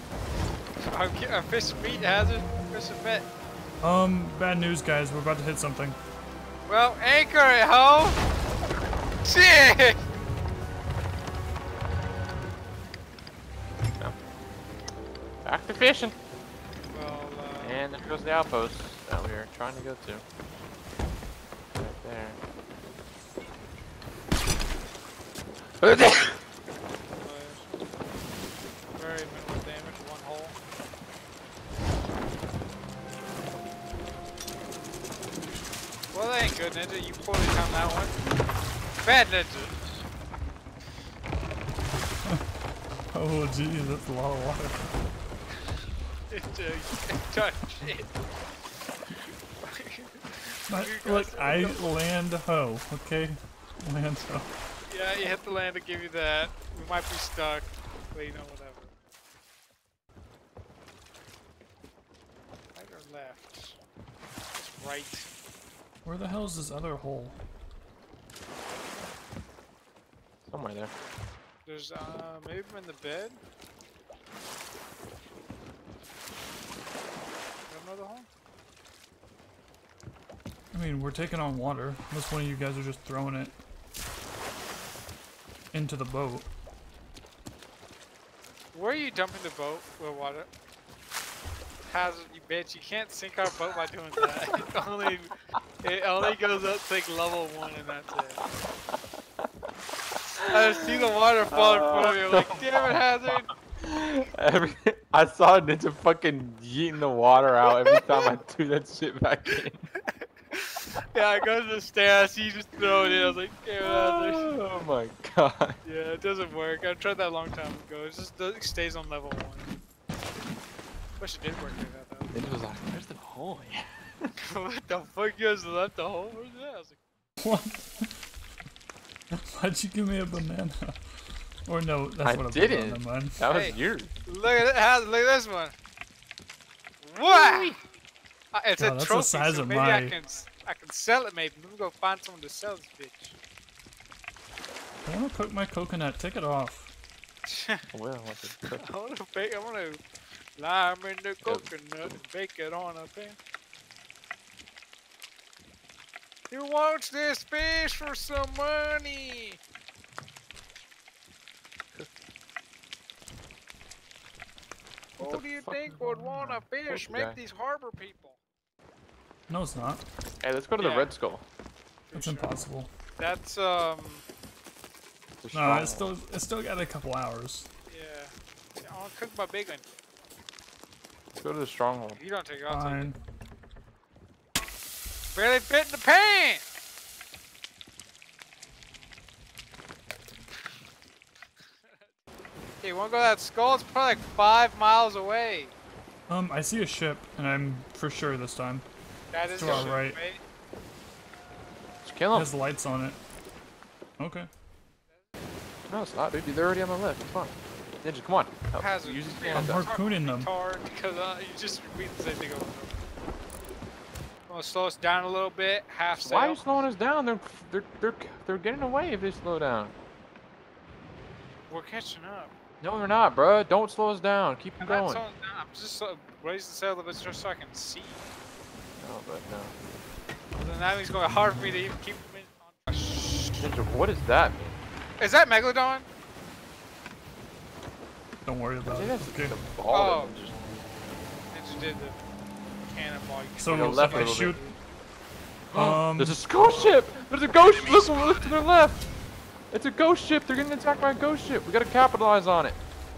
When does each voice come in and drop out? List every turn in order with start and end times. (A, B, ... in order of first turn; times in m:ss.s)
0:00.8-0:03.3 A
0:03.8-0:06.0 B
0:06.7-0:08.2 A
0:09.2-0:10.0 A
0:15.4-0:16.1 C
0:16.9-0:17.9 A
0:17.6-0:20.2 C
0:21.8-0:22.4 C
0:25.8-0:26.3 C
0:27.1-0:27.9 A
0:29.0-0:30.5 A
0:36.1-0:38.1 A
0:39.0-0:39.8 A
0:43.1-0:44.8 B
0:46.3-0:48.1 A
0:49.6-0:51.9 A
0:50.7-0:54.5 B
0:54.9-0:58.9 A
1:02.7-1:03.8 A
1:04.5-1:05.3 A
1:06.0-1:07.4 B
1:10.5-1:10.9 C
1:11.6-1:13.4 A
1:17.7-1:18.3 A
1:20.7-1:23.5 B
1:25.7-1:26.5 B
1:28.7-1:30.5 A
1:31.8-1:38.4 A
1:40.4-1:43.5 A
1:41.5-1:49.8 C
1:47.8-1:48.4 A
1:50.1-1:54.5 A
1:52.9-1:55.8 C
1:55.8-1:59.8 A
2:01.2-2:02.3 A
2:02.3-2:04.3 C
2:04.4-2:07.0 A
2:07.4-2:08.1 B
2:09.3-2:11.0 B
2:11.6-2:13.4 B
2:12.2-2:14.1 C
2:13.4-2:15.7 A
2:17.0-2:17.8 A
2:17.3-2:17.8 C
2:18.5-2:23.4 A
2:18.8-2:20.1 B
2:25.0-2:26.9 B
2:27.5-2:27.8 A
2:27.9-2:28.8 C
2:28.8-2:30.0 A
2:30.6-2:33.4 A
2:31.4-2:31.7 C
2:36.5-2:39.6 A
2:45.2-2:46.0 C
2:45.2-2:48.4 A
2:46.9-2:47.4 C
2:49.5-2:50.0 B
2:50.4-2:51.4 C
2:50.8-2:51.1 A
2:52.1-2:52.6 A
2:52.1-2:52.9 B
2:53.2-2:54.2 A
2:55.4-2:56.1 C
2:55.5-2:57.7 B
2:57.9-2:59.8 A
3:01.4-3:02.2 C
3:02.2-3:03.1 A
3:02.7-3:03.2 B
3:05.3-3:06.6 A
3:11.8-3:12.1 A
3:12.8-3:15.7 A
3:16.3-3:18.8 B
3:19.3-3:20.4 A
3:19.5-3:20.2 B
3:19.6-3:19.9 C
3:22.0-3:22.5 C
3:22.3-3:23.2 B
3:24.2-3:24.5 B
3:25.9-3:29.9 C
3:28.7-3:32.9 A
3:29.5-3:30.5 B
3:34.5-3:36.6 A
3:36.2-3:39.9 C
3:41.7-3:42.5 A
3:42.8-3:45.2 C
3:44.8-3:48.3 A
3:49.0-3:49.7 C
3:50.5-3:53.7 A
3:53.6-3:54.8 C
3:55.2-3:56.1 A
3:58.4-3:59.6 B
3:58.8-4:00.6 C
3:59.9-4:00.4 A
4:01.5-4:02.2 A
4:02.8-4:04.7 A
4:03.6-4:04.6 B
4:03.7-4:04.6 C
4:05.7-4:09.0 C
4:05.7-4:06.4 B
4:07.5-4:08.6 A
4:09.7-4:12.8 C